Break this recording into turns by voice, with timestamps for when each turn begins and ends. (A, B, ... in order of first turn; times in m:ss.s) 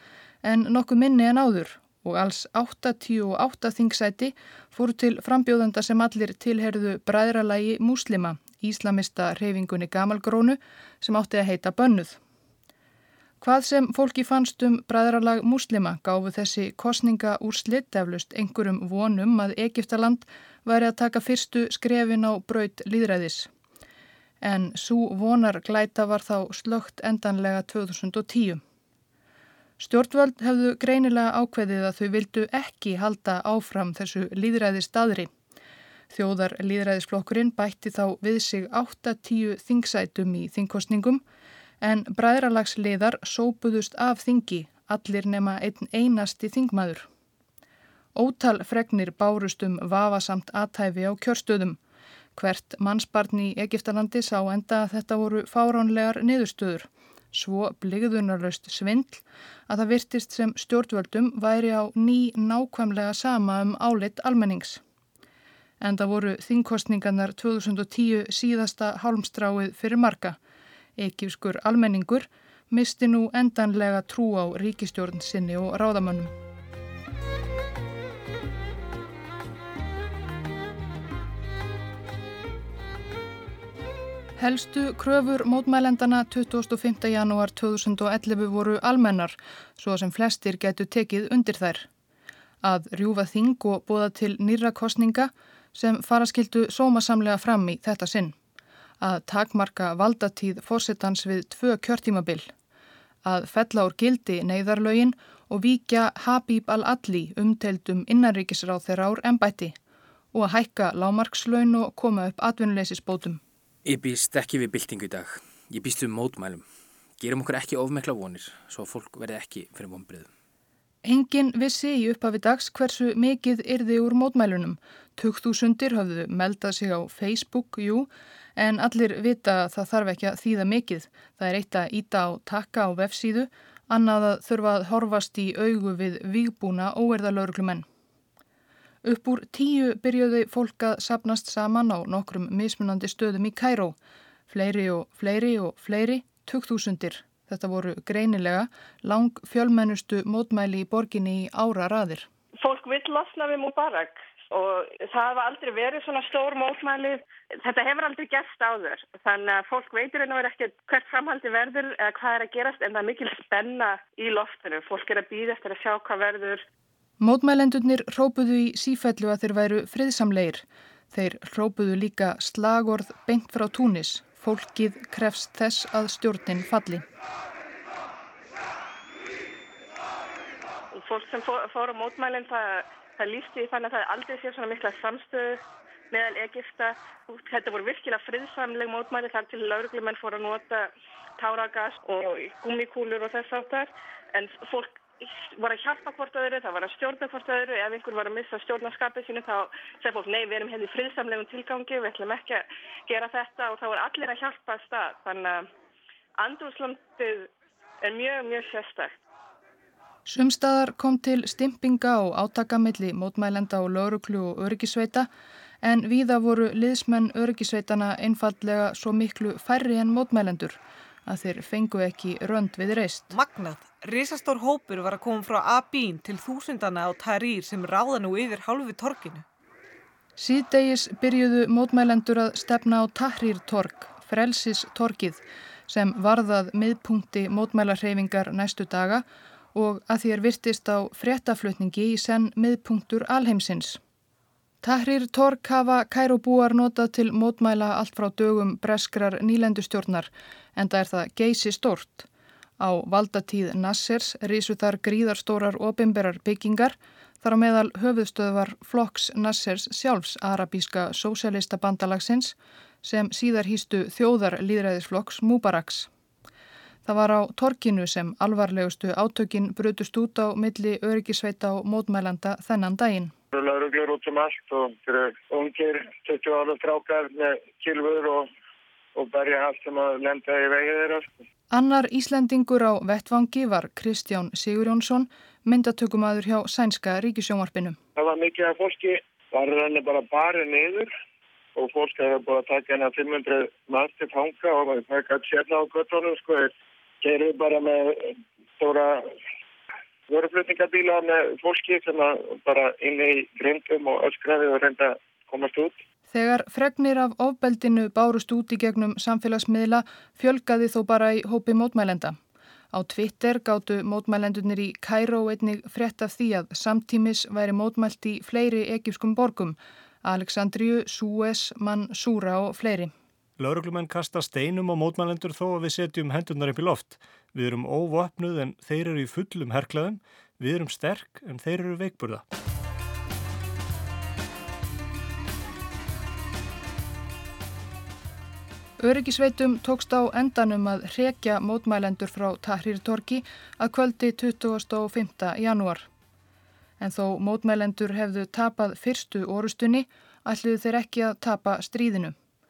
0:00.4-0:12.2 A
0:13.4-0:23.5 A
0:24.4-0:28.6 A
0:29.8-0:35.3 A
0:36.1-0:41.2 A
0:41.8-0:47.1 A
0:48.2-0:51.8 A
0:52.4-1:04.8 A
1:05.8-1:10.4 A
1:11.0-1:16.3 A
1:24.4-1:31.9 A
1:32.6-1:38.3 A
1:39.0-1:42.5 A
1:43.2-1:49.8 A
1:50.3-1:53.4 A
1:53.8-1:56.6 B
1:57.2-2:00.3 B
2:01.0-2:17.8 A
2:19.0-2:23.9 A
2:24.5-2:32.3 A
2:32.6-2:46.6 C
2:47.2-2:57.0 A
3:00.9-3:25.7 C
3:26.4-3:27.5 C
3:28.0-3:29.2 C
3:30.3-3:35.3 A
3:35.8-3:43.3 A
3:43.3-3:49.4 D
3:50.4-4:04.0 A
4:04.8-4:12.3 A
4:12.8-4:26.1 A
4:27.0-4:33.3 A
4:33.5-4:38.5 E
4:39.1-4:41.3 E
4:41.7-4:48.0 A
4:48.2-4:51.1 E
4:51.8-4:59.3 E
5:00.3-5:06.0 E
5:06.3-5:12.4 A
5:12.9-5:23.1 A
5:23.6-5:32.4 F
5:39.0-5:46.1 A
5:47.0-5:52.3 A